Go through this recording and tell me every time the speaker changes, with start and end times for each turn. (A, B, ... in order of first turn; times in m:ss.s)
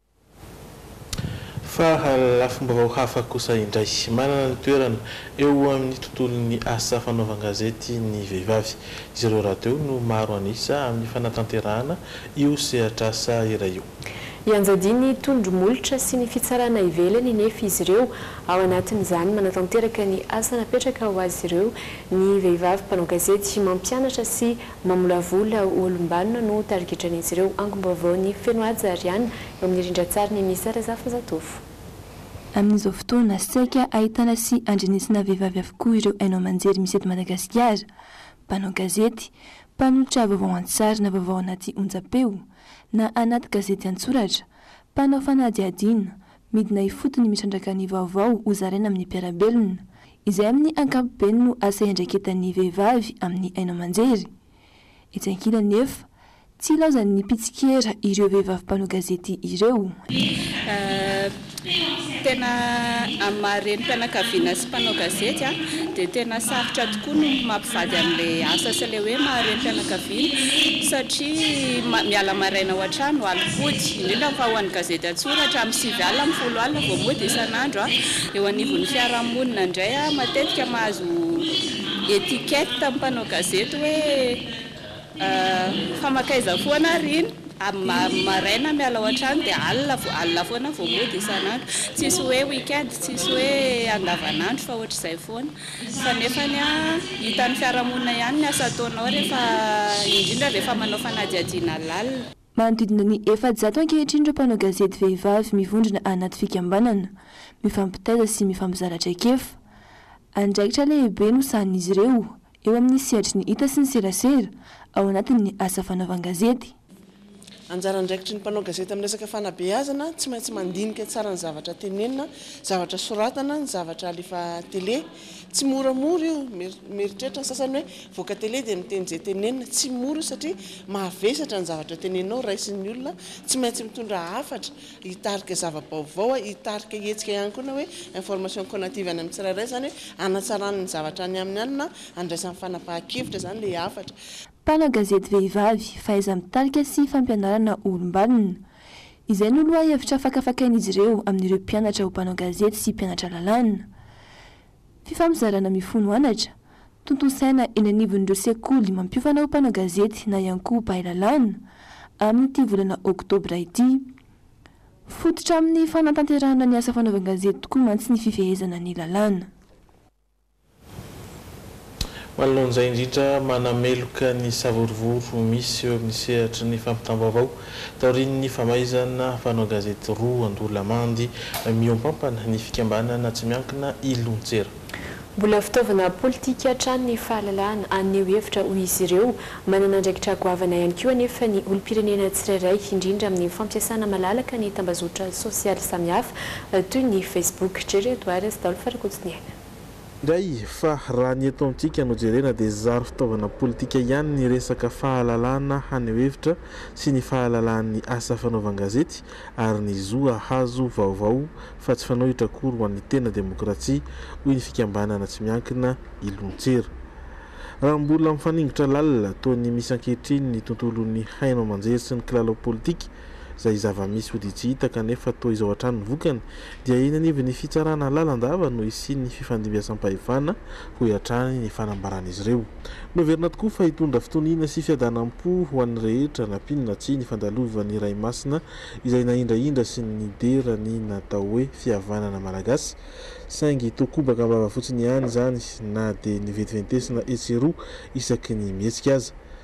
0:01.6-0:13.9 A
0:14.4-0:31.6 B
0:32.5-0:37.8 C
0:38.5-0:54.3 C
0:55.1-0:56.1 C
0:56.6-1:00.0 C
1:00.6-1:01.3 D
1:02.2-1:21.5 D
1:22.0-1:24.4 D
1:25.2-1:42.2 D
1:42.5-1:49.6 C
1:50.4-1:56.7 C
1:57.7-2:24.1 E
2:24.6-2:28.6 C
2:29.3-2:33.9 C
2:35.0-2:36.5 C
2:37.0-2:41.6 C
2:42.2-2:44.1 C
2:45.1-2:49.5 C
2:52.4-3:04.7 A
3:05.4-3:19.5 B
3:20.2-3:36.9 A
3:37.8-4:09.3 A